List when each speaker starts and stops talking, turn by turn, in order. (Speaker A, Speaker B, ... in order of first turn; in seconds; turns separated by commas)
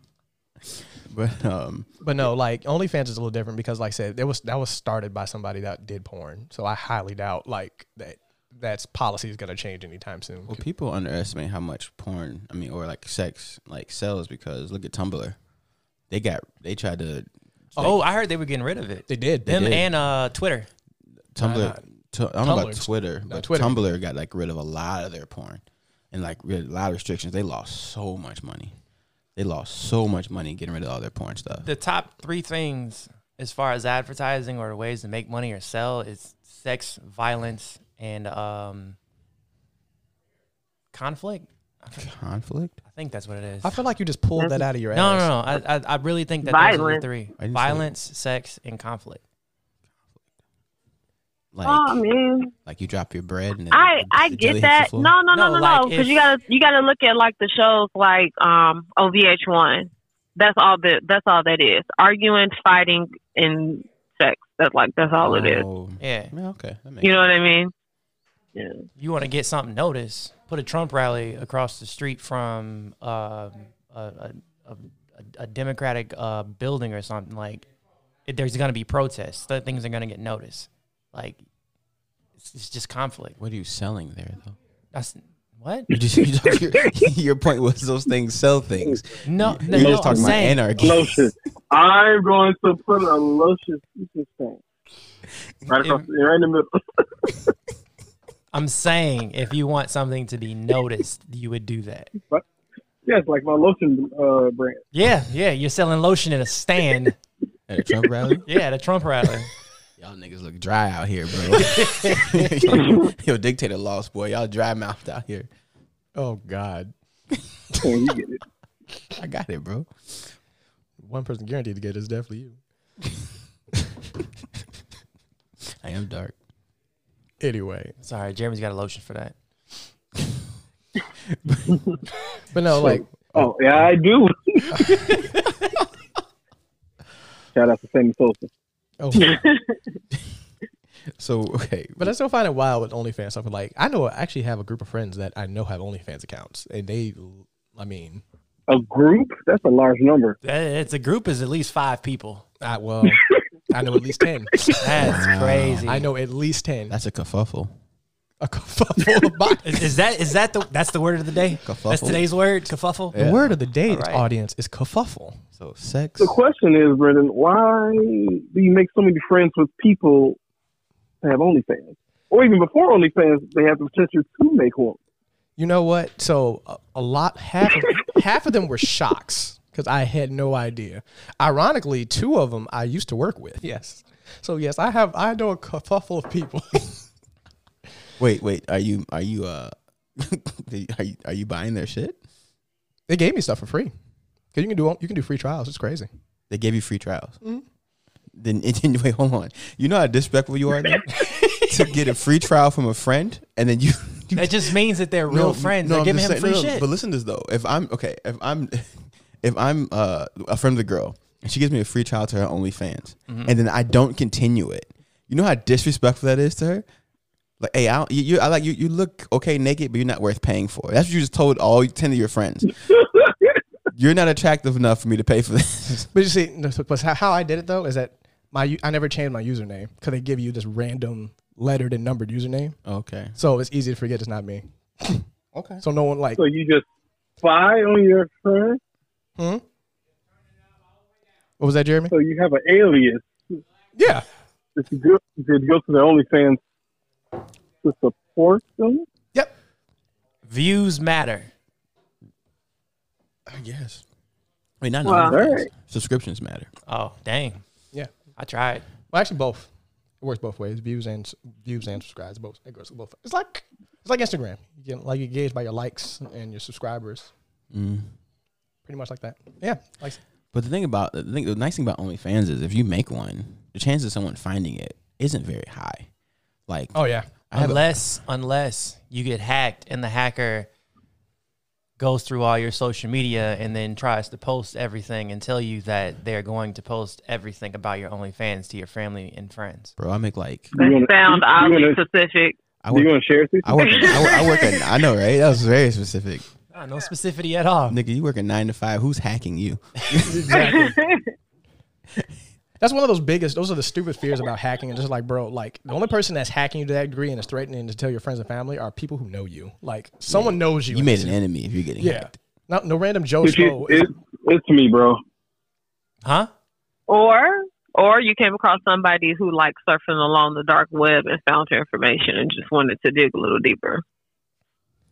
Speaker A: 1.1-1.9, Speaker B: 2.0-10.6, Speaker A: 10.5-15.4, Speaker A: 16.1-18.0, Speaker C: 17.8-20.7, Speaker B: 19.1-19.5, Speaker A: 19.5-19.9, Speaker A: 21.3-28.7, Speaker B: 21.4-21.8, Speaker B: 22.4-23.8, Speaker A: 29.4-31.7, Speaker C: 31.6-39.0, Speaker C: 40.9-42.1, Speaker A: 42.0-42.8, Speaker C: 42.9-43.8, Speaker B: 43.6-45.3, Speaker D: 44.4-44.7, Speaker C: 44.9-49.2, Speaker D: 46.5-47.0, Speaker A: 47.4-47.9, Speaker A: 51.5-52.0, Speaker D: 51.7-52.5, Speaker A: 52.7-55.1, Speaker D: 53.7-65.7, Speaker C: 55.3-56.2, Speaker A: 65.1-67.4, Speaker C: 66.0-66.3, Speaker D: 67.0-67.7, Speaker D: 68.6-68.8, Speaker C: 69.0-77.7, Speaker C: 78.3-81.4, Speaker C: 82.4-83.4, Speaker A: 83.4-84.5, Speaker C: 84.9-85.9, Speaker A: 85.9-91.3, Speaker C: 89.2-90.8, Speaker E: 89.6-94.6, Speaker E: 95.7-97.4, Speaker C: 95.8-96.1, Speaker C: 98.5-102.1, Speaker E: 103.0-104.8, Speaker C: 104.9-107.2, Speaker A: 107.7-108.5, Speaker C: 108.5-109.5, Speaker A: 110.0-115.5, Speaker C: 111.5-112.5, Speaker B: 116.2-116.9, Speaker E: 117.8-118.4, Speaker A: 119.1-120.3, Speaker B: 121.0-122.6, Speaker A: 125.8-126.4, Speaker B: 127.4-127.9, Speaker C: 128.0-129.3, Speaker A: 131.3-131.8, Speaker B: 132.5-133.3, Speaker A: 132.8-133.5, Speaker E: 132.9-134.8, Speaker E: 137.5-138.5, Speaker B: 139.0-139.4, Speaker D: 139.3-139.8, Speaker A: 141.2-142.1, Speaker B: 142.0-148.2, Speaker E: 148.7-150.4, Speaker C: 150.4-152.4, Speaker B: 152.6-154.7, Speaker C: 154.8-156.1, Speaker A: 155.0-155.9, Speaker B: 155.9-156.9, Speaker A: 156.9-157.7, Speaker B: 158.4-159.9, Speaker C: 159.7-163.1, Speaker A: 161.6-162.2, Speaker A: 163.1-163.5, Speaker B: 163.1-165.4, Speaker C: 163.9-164.2, Speaker A: 165.6-166.3, Speaker E: 166.2-170.4, Speaker E: 171.2-175.0, Speaker B: 175.6-187.1, Speaker A: 188.2-192.2, Speaker B: 193.1-193.9, Speaker B: 194.5-196.1, Speaker A: 196.5-197.4, Speaker A: 198.3-216.8, Speaker C: 201.2-201.6, Speaker C: 204.4-206.9, Speaker C: 213.3-213.5, Speaker A: 217.6-222.8, Speaker A: 223.9-226.1, Speaker B: 226.1-232.8, Speaker A: 232.8-233.4, Speaker B: 233.4-235.2, Speaker A: 235.5-235.8, Speaker B: 235.8-236.4, Speaker E: 236.4-236.9, Speaker E: 237.4-238.8, Speaker B: 239.4-239.6, Speaker B: 241.6-242.2, Speaker E: 242.1-243.3, Speaker B: 244.0-244.2, Speaker E: 244.8-246.6, Speaker E: 247.8-249.1, Speaker C: 250.5-251.5, Speaker A: 253.5-254.0, Speaker A: 254.8-256.7, Speaker D: 255.1-255.4, Speaker E: 255.2-255.7, Speaker C: 256.9-257.6, Speaker C: 258.4-258.9, Speaker B: 259.1-259.7, Speaker B: 260.2-267.3, Speaker A: 267.7-268.1, Speaker B: 268.9-270.2, Speaker A: 270.5-276.1, Speaker A: 276.7-277.8, Speaker B: 276.9-277.3, Speaker C: 277.5-280.7, Speaker C: 282.0-289.9, Speaker A: 290.0-290.7, Speaker E: 290.8-292.0, Speaker D: 290.8-292.6, Speaker A: 292.8-296.5, Speaker E: 292.9-294.3, Speaker D: 294.0-294.7, Speaker C: 296.7-298.0, Speaker A: 297.9-300.6, Speaker E: 300.3-300.9, Speaker B: 300.4-301.0, Speaker D: 300.5-301.2, Speaker B: 302.8-311.4, Speaker A: 310.3-312.3, Speaker B: 312.0-314.1, Speaker E: 313.4-315.2, Speaker C: 316.2-316.5, Speaker D: 317.1-324.0